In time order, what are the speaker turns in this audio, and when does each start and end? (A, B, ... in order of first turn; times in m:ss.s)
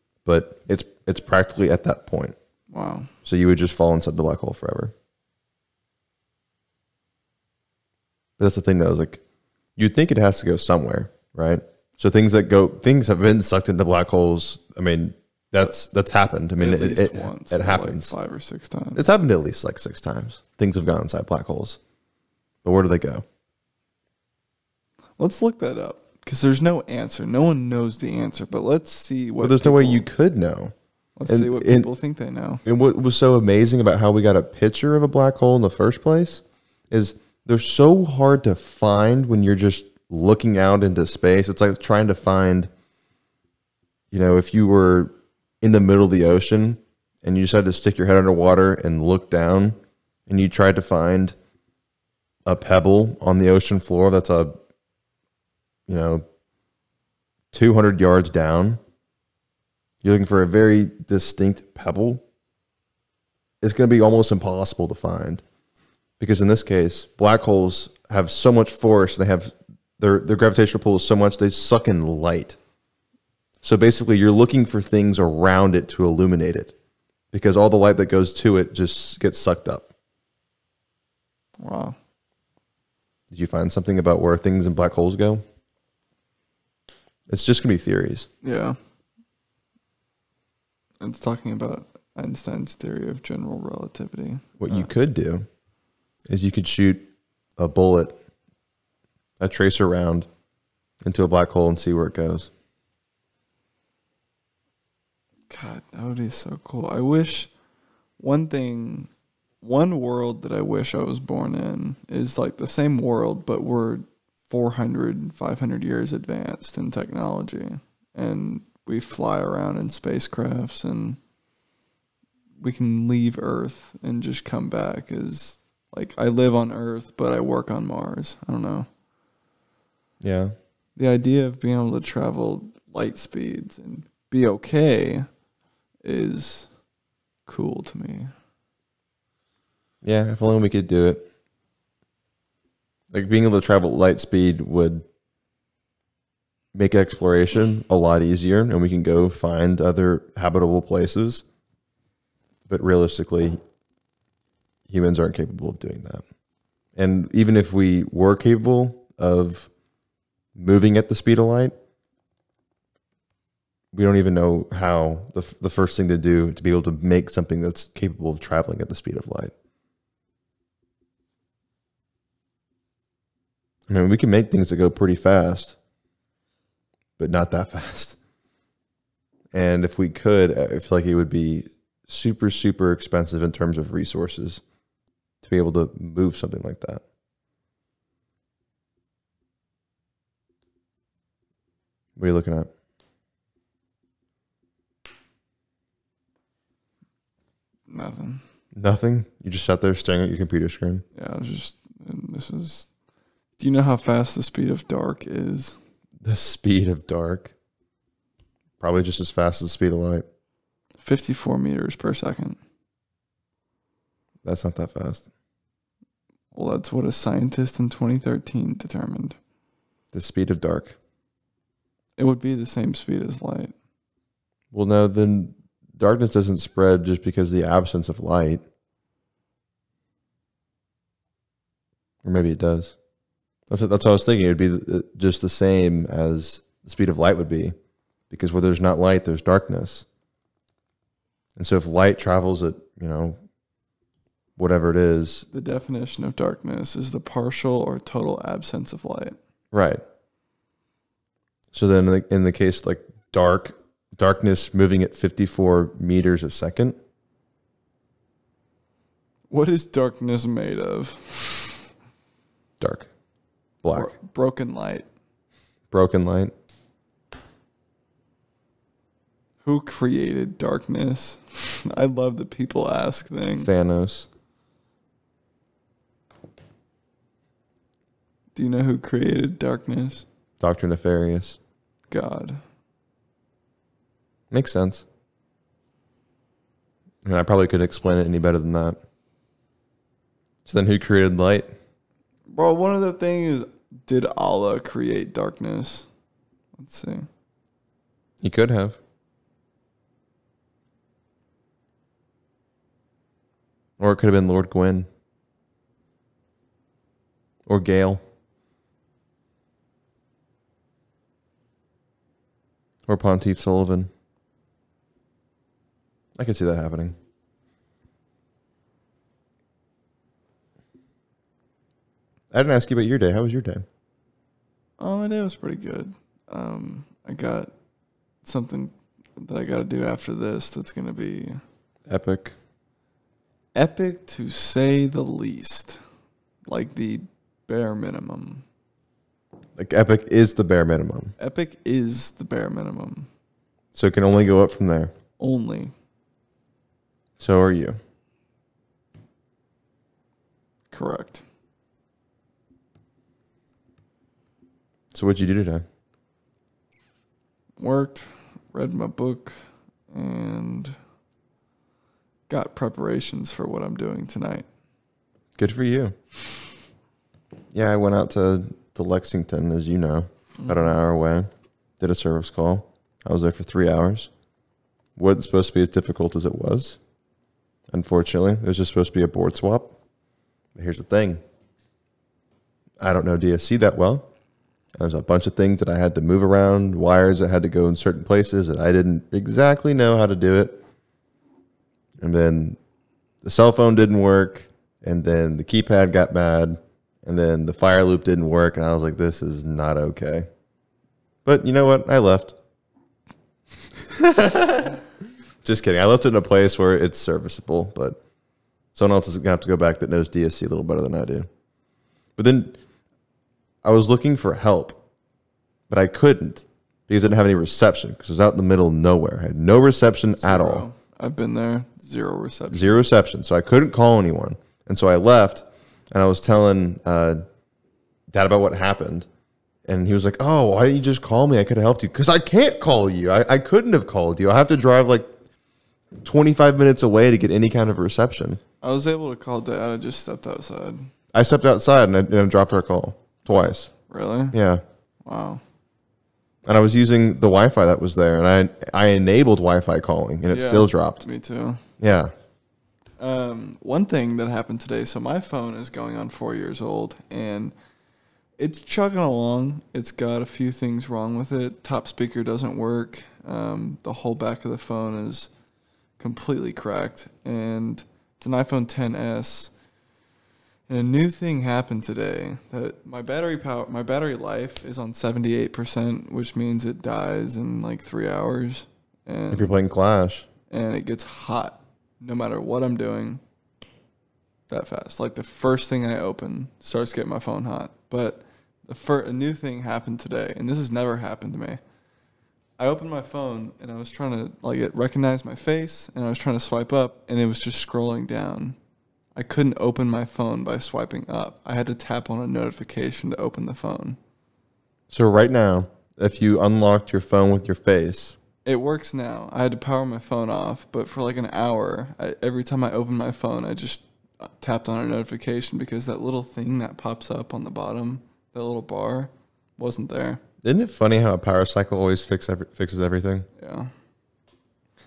0:00.2-0:02.4 A
0:02.7-0:03.1 B
0:03.2-0:04.9 A
0:08.4-0:09.2 A
0:09.8-0:18.1 A
0:16.6-0:19.0 B
0:19.0-0:21.8 A
0:22.6-0:23.2 A
0:25.2-0:30.1 B
0:29.4-0:30.7 A
0:31.2-0:32.6 B
0:31.3-0:31.9 A
0:32.6-0:42.7 A
0:44.1-0:49.8 A
0:50.3-0:51.4 A
0:52.5-0:54.6 A
0:55.9-0:56.2 A
0:57.5-0:58.8 A
1:00.0-1:02.2 A
1:03.6-1:05.4 A
1:06.2-1:12.6 A
1:13.6-1:16.7 A
1:17.3-1:19.9 A
1:21.6-1:22.0 B
1:23.3-1:25.4 A
1:27.3-1:28.3 A
1:28.4-1:28.8 B
1:31.0-1:34.9 B
1:34.6-1:35.5 A
1:36.3-1:38.2 A
1:39.4-1:40.3 A
1:41.0-1:42.5 A
1:45.5-1:47.5 B
1:48.2-1:49.1 B
1:49.6-2:01.2 B
2:02.6-2:08.9 B
2:10.2-2:10.5 A
2:11.0-2:15.3 B
2:16.0-2:16.7 B
2:17.5-2:18.3 B
2:20.0-2:21.3 A
2:23.1-2:25.0 A
2:26.7-2:31.4 A
2:32.7-2:33.6 A
2:34.9-2:36.2 A
2:37.0-2:39.7 A
2:40.6-2:41.7 A
2:43.9-2:49.5 A
2:53.9-2:55.8 A
2:57.2-2:58.2 A
2:59.5-3:04.6 A
3:05.4-3:07.0 A
3:12.2-3:12.7 A
3:17.9-3:18.4 B
3:18.7-3:21.0 A
3:21.2-3:22.9 B
3:23.6-3:25.8 B
3:26.2-3:27.5 A
3:28.8-3:30.2 A
3:31.0-3:32.6 B
3:34.4-3:35.3 A
3:36.5-3:39.4 B
3:40.1-3:41.0 A
3:42.2-3:43.7 B
3:44.7-3:48.6 A
3:52.2-3:53.0 A
3:53.7-3:57.7 A
3:58.3-4:00.1 A
4:01.6-4:03.4 A
4:04.6-4:05.5 A
4:05.5-4:09.4 B
4:09.7-4:10.0 A
4:11.7-4:17.0 A
4:19.5-4:21.9 B
4:22.8-4:23.1 A
4:23.8-4:24.1 A
4:23.9-4:25.1 B
4:25.9-4:26.5 A
4:29.6-4:33.7 B
4:33.6-4:34.3 A
4:38.6-4:40.2 B
4:40.6-4:41.6 A
4:42.1-4:42.6 B
4:44.5-4:45.0 A
4:47.2-4:49.0 A
4:50.7-4:51.7 A
4:52.5-4:56.1 B
4:56.8-4:57.3 B
4:58.4-4:59.0 A
5:04.0-5:05.1 A
5:07.7-5:08.2 A
5:13.1-5:14.1 A
5:16.4-5:17.2 A
5:22.5-5:23.8 A
5:25.0-5:27.7 B
5:28.4-5:31.6 B
5:32.1-5:32.6 A
5:33.8-5:36.0 B
5:36.7-5:38.6 B
5:39.8-5:41.3 A
5:41.4-5:43.3 B
5:43.9-5:45.1 A
5:45.4-5:45.9 B
5:47.4-5:48.0 A
5:50.9-5:51.4 B
5:55.1-5:55.8 A
5:57.8-5:59.6 B
6:00.1-6:01.0 B
6:02.5-6:04.7 B
6:05.6-6:06.2 A
6:07.7-6:11.5 A
6:10.6-6:11.0 B
6:12.0-6:14.3 A
6:15.2-6:17.0 A
6:17.9-6:20.0 A
6:20.8-6:21.4 A
6:23.0-6:24.3 A
6:25.0-6:30.8 A
6:32.2-6:32.8 A
6:33.4-6:40.5 A
6:41.4-6:42.6 A
6:44.0-6:45.0 A
6:45.6-6:48.2 A
6:48.9-6:51.5 A
6:52.4-6:52.8 A
6:53.8-6:55.0 A
6:55.9-7:00.9 A
7:00.4-7:03.0 B
7:02.7-7:07.4 A
7:08.3-7:09.3 A
7:09.9-7:15.3 A
7:16.2-7:18.6 A
7:18.8-7:21.1 B
7:21.3-7:23.9 A
7:24.1-7:24.6 B
7:24.5-7:24.8 A
7:25.2-7:25.6 B
7:26.7-7:31.2 A
7:30.5-7:31.8 B
7:32.0-7:32.3 A
7:33.2-7:37.7 B
7:38.6-7:45.5 B
7:46.2-7:49.7 B
7:50.9-7:59.8 B
7:59.5-8:00.5 A
8:00.7-8:03.4 B
8:04.7-8:11.8 B
8:12.8-8:18.8 B
8:19.4-8:24.2 B
8:25.1-8:28.4 A
8:28.7-8:40.4 B
8:40.6-8:43.5 A
8:43.6-8:43.9 B